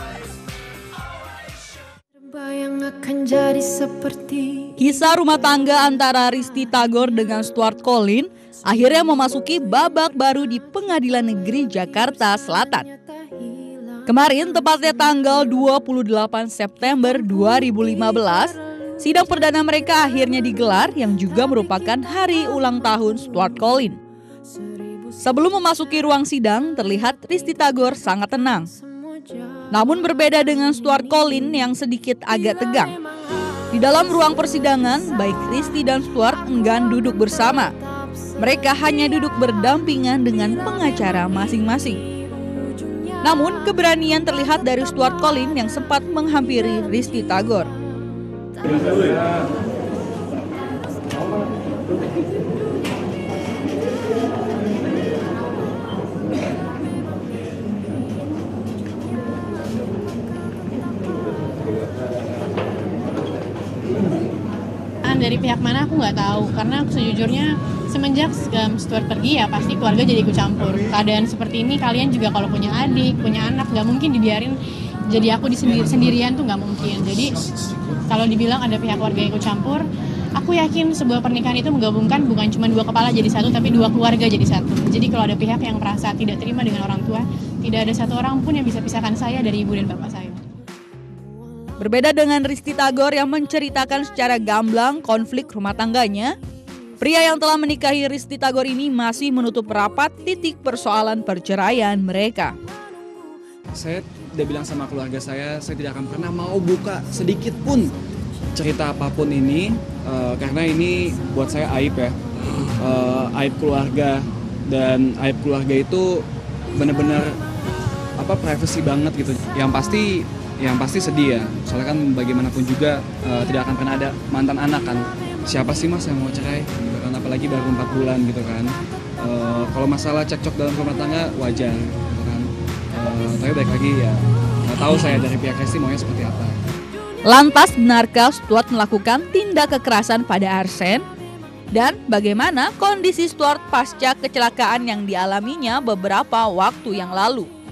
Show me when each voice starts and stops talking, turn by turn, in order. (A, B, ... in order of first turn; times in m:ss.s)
0:02.4-0:04.6 A
0:04.8-0:12.9 B
0:14.0-0:24.0 B
0:25.2-0:28.7 B
0:29.7-0:33.0 B
0:33.7-0:37.7 B
0:38.4-0:42.0 B
0:43.2-0:47.7 B
1:05.0-1:14.6 C
1:15.1-1:17.4 C
1:18.1-1:19.8 C
1:20.4-1:30.4 C
1:31.8-1:36.3 B
1:37.0-1:42.6 B
1:43.8-1:47.9 D
1:48.6-1:52.2 D
1:52.8-1:57.4 D
1:58.2-2:16.6 D
2:17.3-2:21.0 B
2:21.7-2:27.5 B